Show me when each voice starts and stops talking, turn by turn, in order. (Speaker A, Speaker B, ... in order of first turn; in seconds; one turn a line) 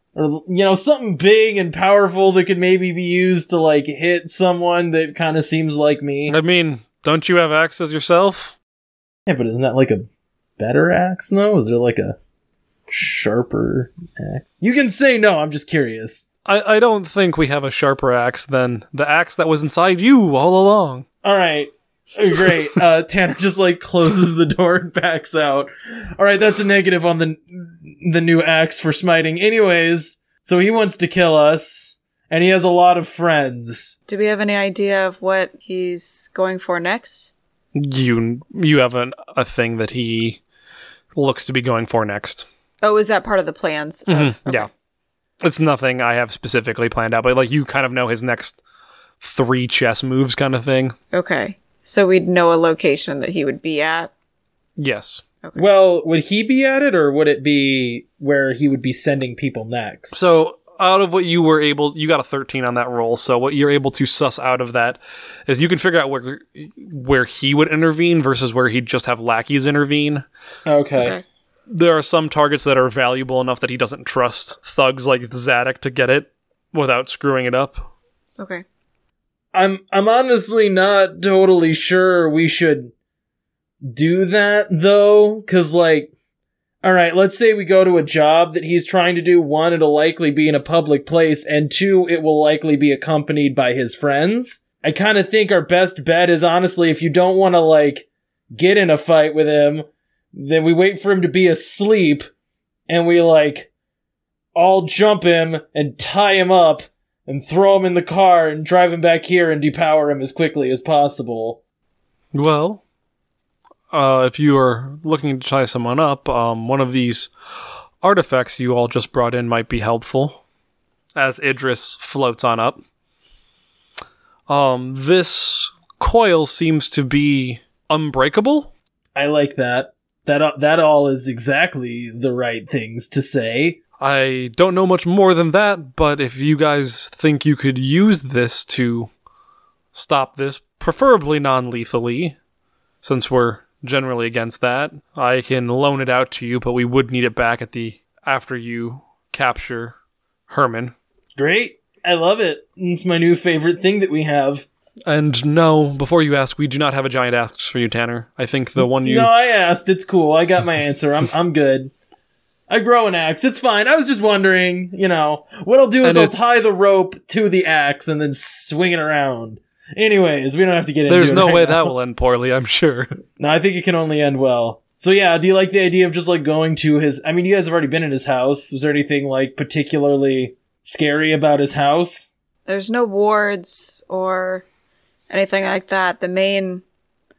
Speaker A: 0.1-6.4
Speaker B: 6.3-8.6
Speaker A: 9.3-12.2
Speaker A: 12.9-16.3
Speaker B: 16.5-21.1
Speaker A: 21.2-34.0
Speaker C: 34.1-37.3
Speaker B: 37.8-40.4
Speaker B: 41.1-42.5
Speaker C: 42.8-44.7
Speaker B: 44.1-44.7
Speaker B: 45.4-48.6
Speaker B: 49.2-51.0
Speaker C: 51.1-54.1
Speaker B: 54.8-55.2
Speaker A: 55.6-60.2
Speaker B: 60.1-70.2
Speaker A: 70.7-71.2
Speaker C: 71.0-71.2
Speaker B: 71.7-77.9
Speaker C: 78.4-78.6
Speaker A: 79.5-82.9
Speaker A: 83.8-86.1
Speaker A: 86.8-102.3
Speaker A: 102.9-103.7
Speaker A: 104.5-111.6
Speaker B: 112.3-112.8
Speaker B: 113.9-117.3
Speaker B: 118.0-120.4
Speaker B: 121.2-122.8
Speaker B: 124.5-128.7
Speaker A: 129.2-133.8
Speaker B: 134.0-139.1
Speaker B: 139.9-142.4
Speaker B: 143.0-149.9
Speaker B: 150.5-150.9
Speaker A: 151.4-154.7
Speaker B: 155.1-159.3
Speaker A: 158.8-161.9
Speaker A: 162.7-171.9
Speaker B: 166.0-166.4
Speaker B: 171.1-173.1
Speaker A: 173.4-182.3
Speaker C: 182.7-184.7
Speaker C: 185.3-186.8